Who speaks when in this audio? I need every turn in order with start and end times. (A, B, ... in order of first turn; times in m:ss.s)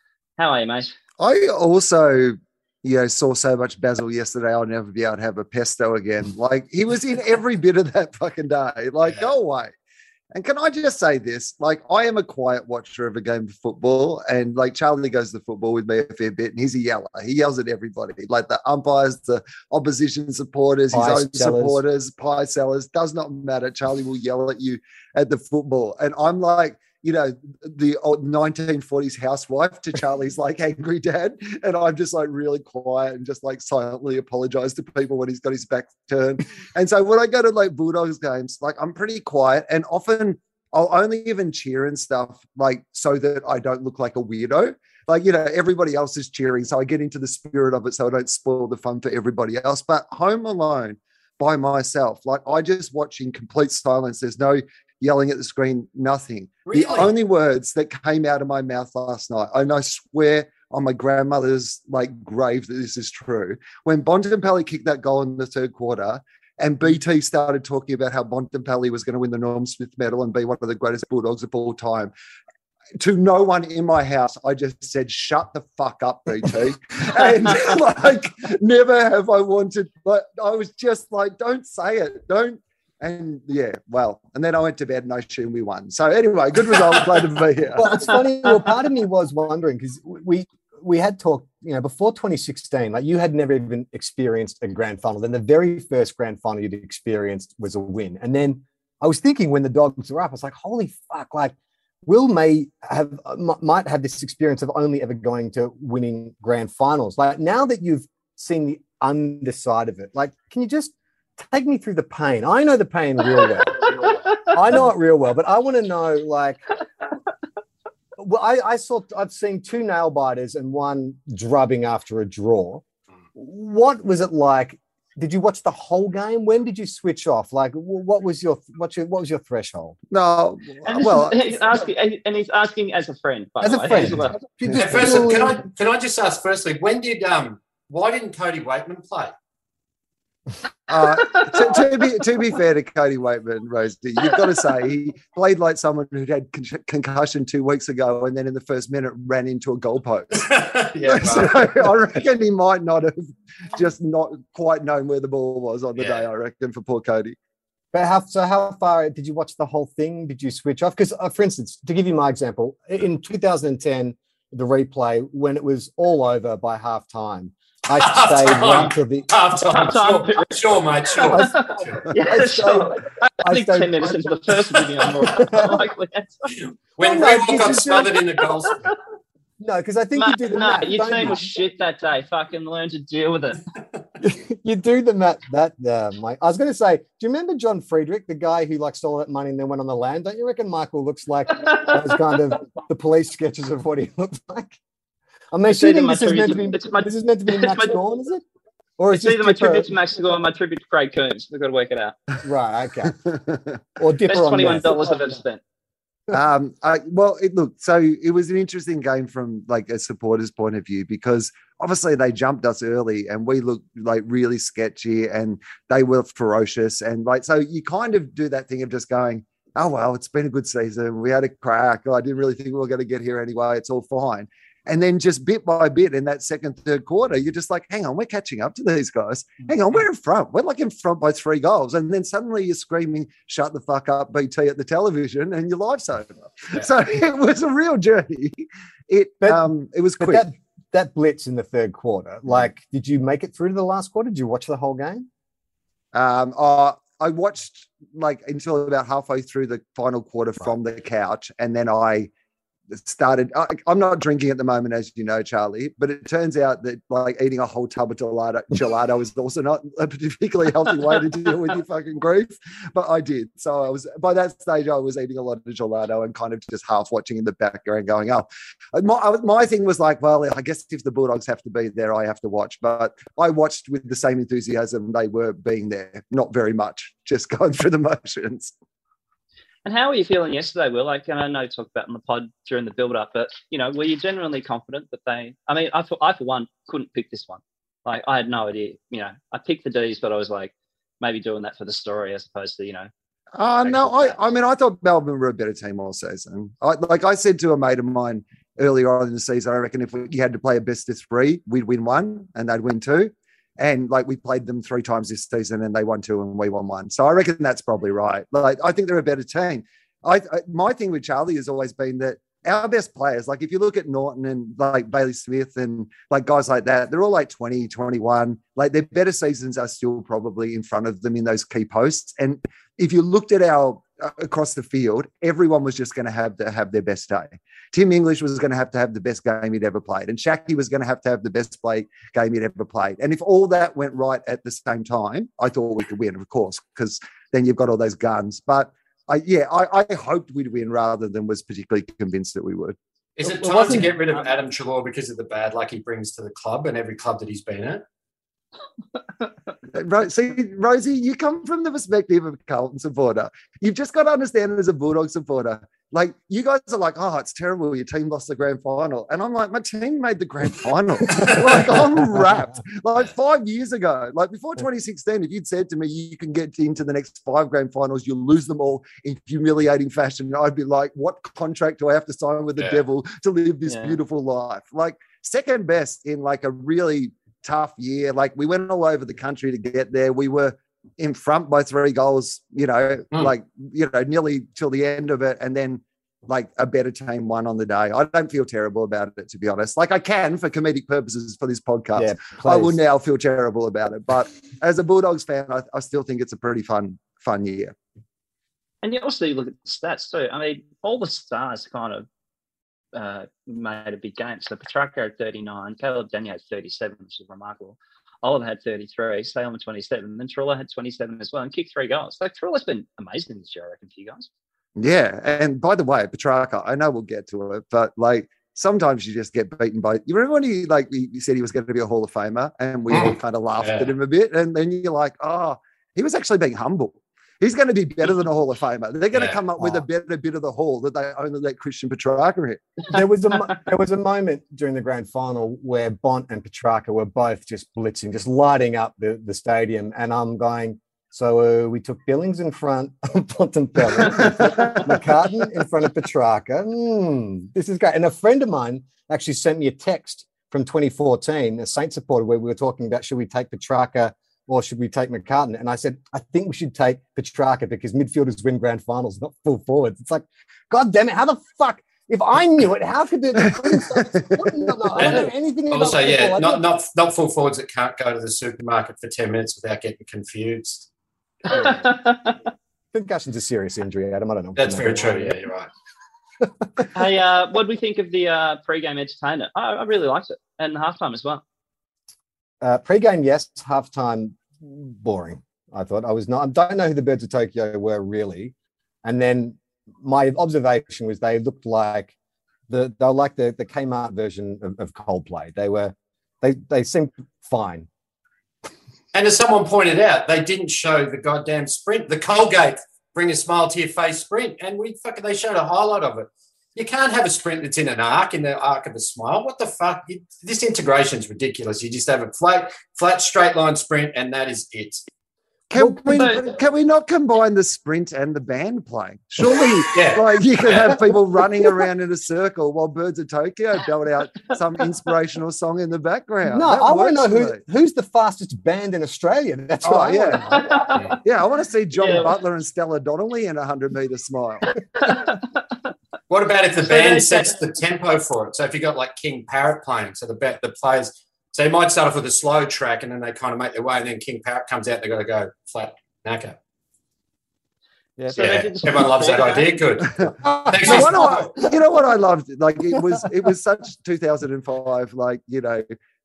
0:00.4-0:01.0 A
0:01.2-0:09.7 B
0:09.0-0:09.3 C
0:10.3-1:12.1 B
0:20.9-0:21.8 D
0:56.7-0:57.2 C
1:13.0-1:28.2 B
1:27.8-1:56.6 D
1:58.2-2:02.8 D
2:03.4-2:10.0 D
2:10.1-2:11.5 B
2:10.8-2:14.4 A
2:13.6-2:15.6 D
2:14.7-2:19.3 C
2:20.9-2:30.4 B
2:30.4-2:31.9 C
2:31.0-2:37.4 B
2:36.0-2:36.3 C
2:37.9-2:49.3 D
2:47.9-2:52.0 C
2:49.8-2:50.6 A
2:51.1-2:56.5 A
2:52.3-2:54.6 D
2:55.3-2:55.8 D
2:57.0-2:59.0 C
2:57.0-2:58.2 D
2:59.6-3:01.5 D
3:00.2-3:03.6 A
3:04.2-3:14.8 D
3:11.6-3:12.3 A
3:15.5-3:18.4 D
3:15.8-3:18.0 A
3:19.0-3:19.9 D
3:19.1-3:22.2 A
3:22.4-3:23.2 D
3:24.0-3:25.1 D
3:24.3-3:25.6 A
3:26.3-4:00.5 B
3:59.4-3:59.7 D
4:00.2-4:05.3 D
4:06.1-4:12.3 B
4:12.9-4:38.7 B
4:39.8-4:53.1 A
4:53.6-5:43.0 B
4:53.8-4:54.4 A
5:43.4-5:48.0 C
5:43.5-5:44.1 B
5:49.9-6:38.0 B
6:12.8-6:13.0 C
6:13.9-6:14.2 A
6:32.2-6:33.0 D
6:39.0-6:42.3 A
6:43.1-6:54.5 A
6:55.0-7:12.8 B
7:03.1-7:04.1 C
7:09.3-7:09.7 C
7:09.8-7:10.0 D
7:13.1-7:46.8 D
7:24.3-7:25.1 B
7:43.7-7:45.4 B
7:45.2-7:51.1 C
7:51.7-7:52.6 A
7:53.1-7:55.6 D
7:54.8-7:55.9 C
7:56.6-7:57.1 D
7:57.2-8:01.6 A
8:02.8-8:12.4 D
8:12.9-8:18.1 D
8:19.3-8:35.3 C
8:35.9-8:47.8 B
8:36.0-8:36.6 D
8:36.3-8:36.6 A
8:40.1-8:41.2 C
8:46.7-8:50.8 D
8:50.0-8:50.9 B
8:50.7-8:51.4 A
8:51.4-8:55.0 B
8:52.2-8:52.5 A
8:55.2-8:55.7 A
8:56.5-9:06.8 C
8:57.0-8:57.8 A
9:08.4-9:09.2 D
9:08.5-9:09.9 A
9:08.5-9:11.7 C
9:10.5-9:16.1 B
9:10.6-9:11.9 D
9:13.1-9:13.7 D